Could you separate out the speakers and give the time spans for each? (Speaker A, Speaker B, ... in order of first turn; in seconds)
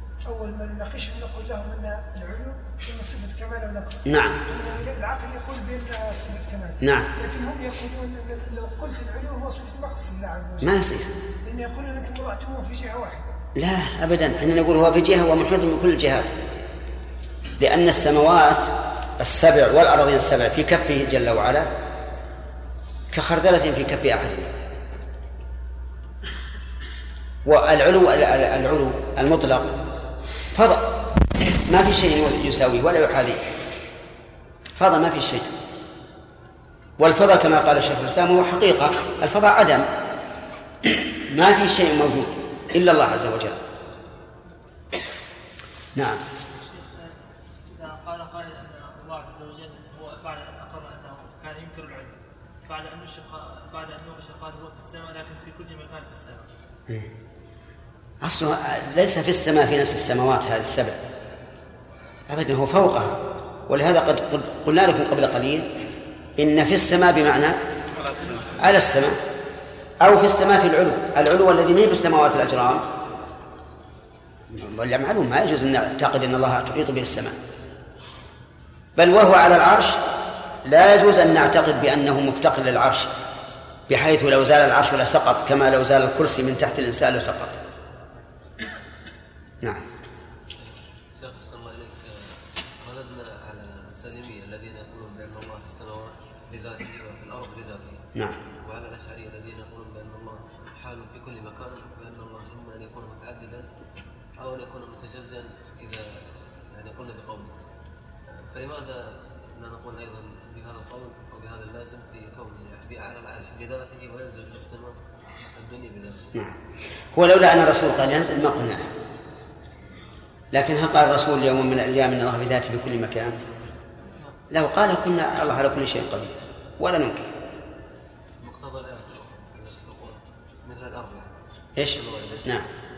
Speaker A: 0.2-10.7, 11.4-13.3
Speaker B: 4.0-4.4, 6.8-7.1, 10.6-11.1, 13.6-16.3, 17.6-21.7, 23.1-24.5, 27.4-29.8, 30.5-33.5, 34.8-35.5, 37.0-39.9, 40.9-43.6, 46.0-46.2, 58.2-61.0, 62.3-65.7, 66.4-67.6, 68.5-69.2, 70.0-72.8, 74.5-77.4, 79.0-80.0, 80.7-83.1, 83.9-87.6, 117.1-118.9, 120.5-123.4, 124.5-127.3, 131.8-132.7
Speaker C: 46.7-47.1, 47.7-56.5
Speaker D: 91.2-92.0, 92.8-98.0, 98.6-103.7, 104.4-106.0, 106.7-107.6, 108.5-116.3, 128.4-132.6